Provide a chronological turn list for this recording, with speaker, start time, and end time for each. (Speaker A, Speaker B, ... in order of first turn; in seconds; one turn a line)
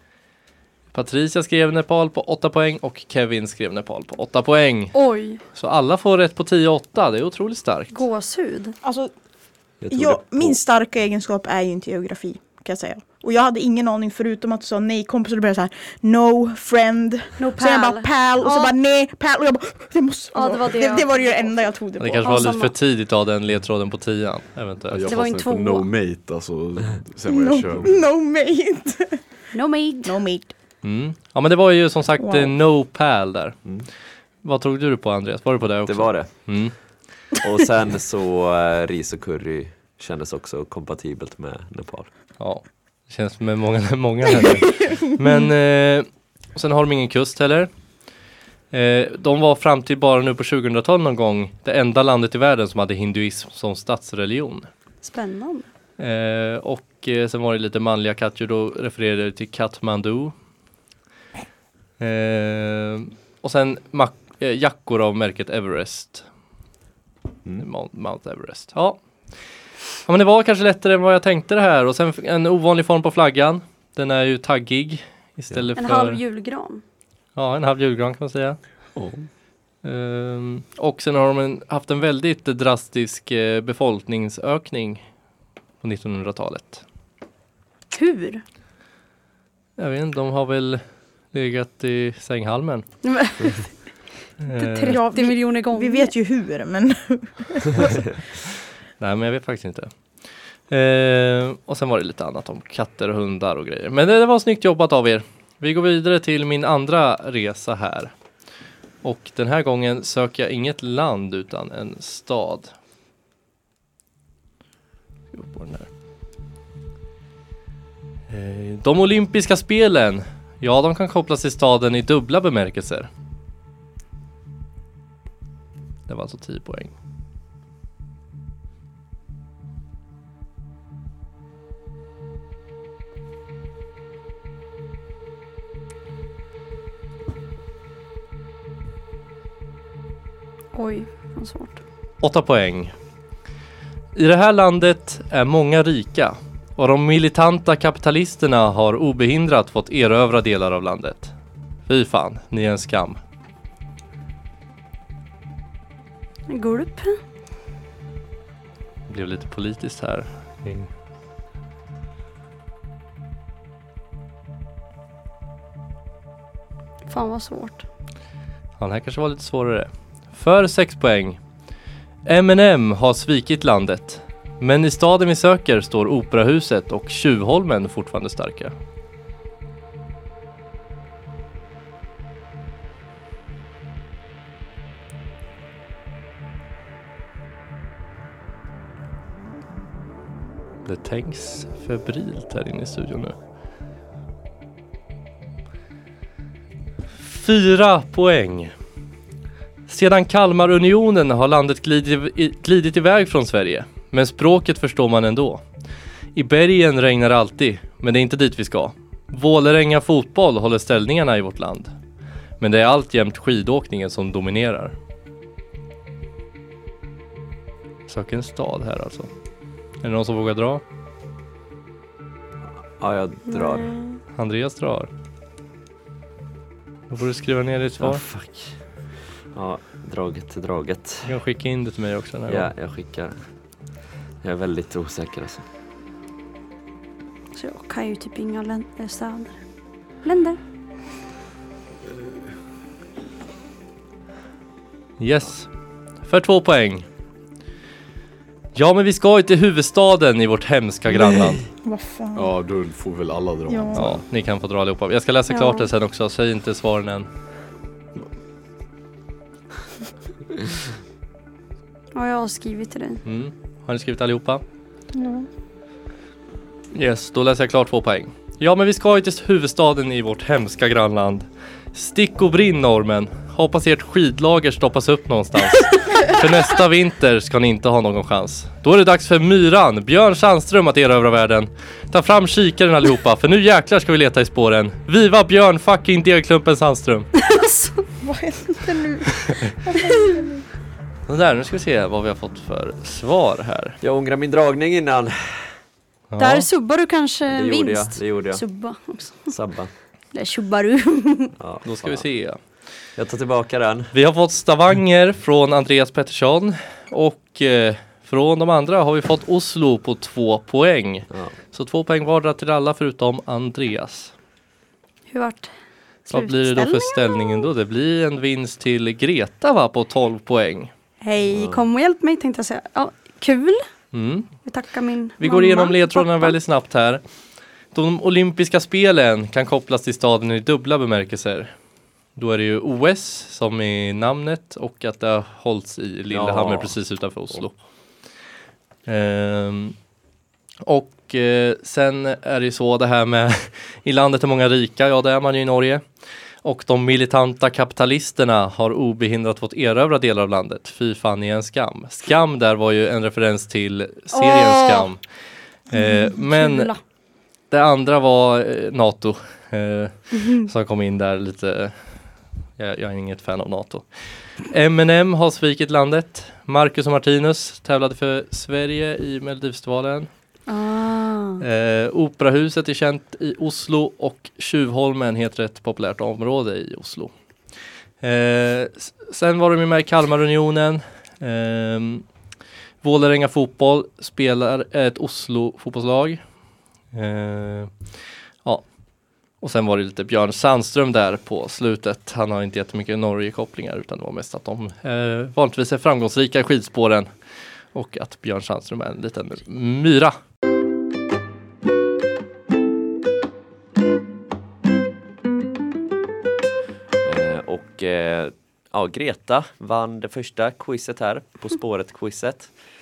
Speaker A: 0.9-4.9
Speaker B: 4.9-5.4
Speaker A: 5.5-8.0
Speaker B: 7.9-8.8
Speaker C: 8.8-9.1
Speaker D: 9.8-10.6
Speaker C: 9.9-22.5
Speaker B: 17.4-18.7
Speaker B: 20.3-21.4
Speaker A: 22.0-25.1
Speaker B: 22.2-22.7
Speaker E: 24.9-28.0
Speaker B: 25.1-25.9
Speaker C: 27.2-29.2
Speaker B: 29.5-30.2
Speaker C: 30.0-30.5
Speaker A: 30.8-33.6
Speaker C: 32.2-32.5
Speaker A: 34.4-36.7
Speaker D: 35.9-36.5
Speaker D: 37.4-42.1
Speaker A: 42.4-47.7
Speaker C: 44.9-45.5
Speaker A: 48.7-54.7
Speaker B: 55.0-55.7
Speaker A: 56.0-60.3
Speaker A: 62.0-66.2
Speaker A: 67.6-69.0
Speaker A: 70.0-76.2
Speaker B: 75.8-76.8
Speaker A: 77.3-78.6
Speaker E: 78.9-79.3
Speaker A: 79.8-85.0
Speaker A: 85.8-86.8
Speaker B: 87.9-88.4
Speaker A: 89.8-90.8
Speaker A: 91.3-92.9
Speaker B: 93.0-93.7
Speaker A: 94.4-95.0
Speaker B: 94.5-96.1
Speaker C: 94.8-98.1
Speaker A: 99.0-99.9
Speaker A: 100.7-108.1
Speaker A: 109.0-112.7
Speaker A: 115.3-115.9
Speaker A: 118.3-123.1
Speaker A: 126.1-126.9
Speaker B: 140.7-141.8
Speaker A: 142.2-142.9
Speaker A: 144.1-151.3
Speaker A: 151.9-153.2
Speaker B: 156.5-157.2
Speaker A: 159.1-160.9
Speaker B: 167.1-167.8
Speaker A: 168.8-171.4
Speaker A: 172.2-178.7
Speaker A: 190.8-193.3
Speaker A: 197.2-198.7
Speaker A: 199.9-205.6
Speaker A: 206.3-211.9
Speaker A: 212.6-214.9
Speaker A: 218.1-219.3
Speaker A: 220.0-220.8
Speaker D: 223.0-224.0
Speaker B: 223.5-224.2
Speaker A: 224.3-225.1
Speaker A: 227.1-228.2
Speaker D: 228.0-228.8
Speaker D: 229.5-231.3
Speaker A: 231.2-232.7
Speaker D: 232.5-233.4
Speaker D: 234.4-235.6
Speaker B: 237.5-239.5
Speaker B: 240.2-240.6
Speaker A: 245.2-245.7
Speaker A: 246.2-247.0
Speaker A: 248.7-251.6
Speaker C: 251.8-252.5
Speaker E: 252.3-254.2
Speaker C: 253.7-254.2
Speaker A: 253.9-257.3
Speaker B: 255.5-255.9
Speaker B: 262.1-263.2
Speaker A: 263.2-264.6
Speaker C: 265.1-265.5
Speaker A: 266.9-287.3
Speaker B: 287.3-288.1
Speaker C: 288.2-290.7
Speaker B: 290.1-290.4
Speaker A: 291.3-294.0
Speaker D: 294.0-295.7
Speaker A: 296.3-296.7
Speaker B: 296.4-299.5
Speaker D: 297.5-298.6
Speaker D: 299.5-299.9
Speaker B: 300.3-301.5
Speaker D: 301.6-302.2
Speaker A: 301.8-302.6
Speaker D: 303.2-304.1
Speaker A: 304.1-314.3
Speaker D: 311.3-311.5
Speaker B: 315.3-315.7
Speaker B: 316.2-317.7
Speaker A: 316.3-320.9
Speaker B: 321.2-323.8
Speaker D: 321.5-321.9
Speaker A: 324.1-324.5
Speaker B: 324.6-326.5
Speaker A: 325.4-327.2
Speaker A: 327.9-331.7
Speaker A: 332.4-337.8
Speaker D: 336.3-336.9
Speaker A: 339.1-339.9
Speaker A: 340.8-346.0
Speaker A: 346.6-355.2
Speaker B: 354.3-355.1
Speaker B: 355.9-357.0
Speaker A: 355.9-356.9
Speaker A: 357.7-361.9
Speaker A: 362.8-364.1
Speaker A: 364.6-370.3
Speaker B: 370.7-371.6
Speaker A: 371.6-377.3
Speaker A: 378.2-382.2
Speaker A: 383.0-386.4
Speaker A: 387.1-387.9
Speaker A: 389.6-397.3
Speaker A: 397.9-400.4
Speaker D: 407.2-412.7